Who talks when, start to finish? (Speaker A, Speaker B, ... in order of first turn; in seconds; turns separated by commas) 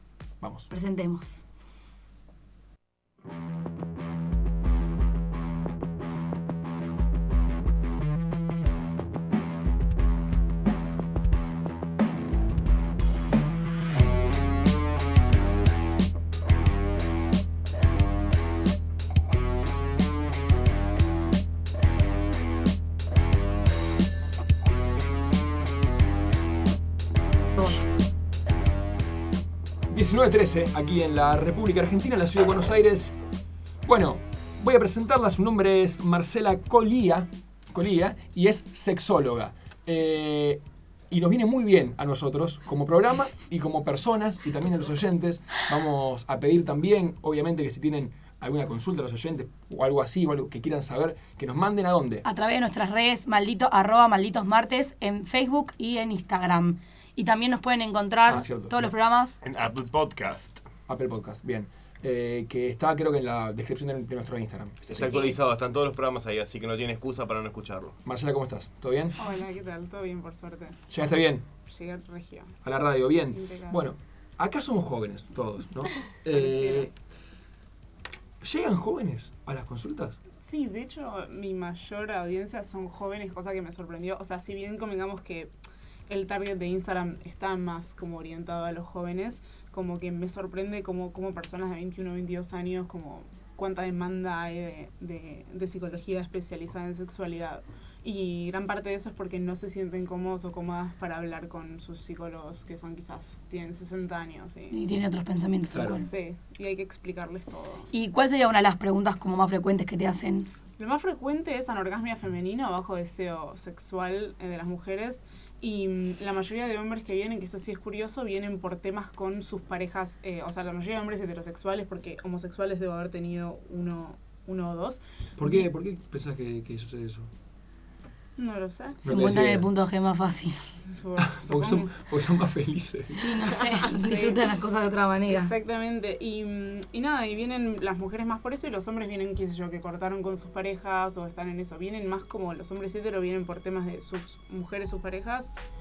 Speaker A: 0.4-0.7, Speaker B: 0.7-1.4, Speaker A: 29.9-33.1, Speaker A: 33.8-52.2, Speaker B: 52.2-59.4, Speaker A: 58.3-58.9, Speaker C: 59.4-60.7, Speaker A: 60.9-65.3, Speaker C: 64.9-68.0, Speaker A: 68.0-69.2, Speaker D: 69.2-70.8, Speaker A: 70.9-71.5, Speaker D: 71.7-72.6, Speaker A: 72.6-76.9, Speaker D: 73.3-73.9, Speaker D: 76.3-76.9, Speaker A: 78.4-80.2, Speaker D: 80.4-85.5, Speaker D: 86.1-104.8, Speaker B: 104.7-106.0, Speaker A: 105.7-106.0, Speaker D: 106.0-107.9, Speaker B: 107.9-110.5, Speaker D: 110.8-125.7, Speaker A: 125.4-127.3, Speaker D: 128.4-129.0, Speaker B: 129.0-130.7, Speaker A: 129.1-129.7, Speaker D: 130.8-131.9, Speaker A: 131.2-133.2, Speaker B: 133.1-135.5, Speaker D: 134.0-134.4, Speaker D: 135.3-145.5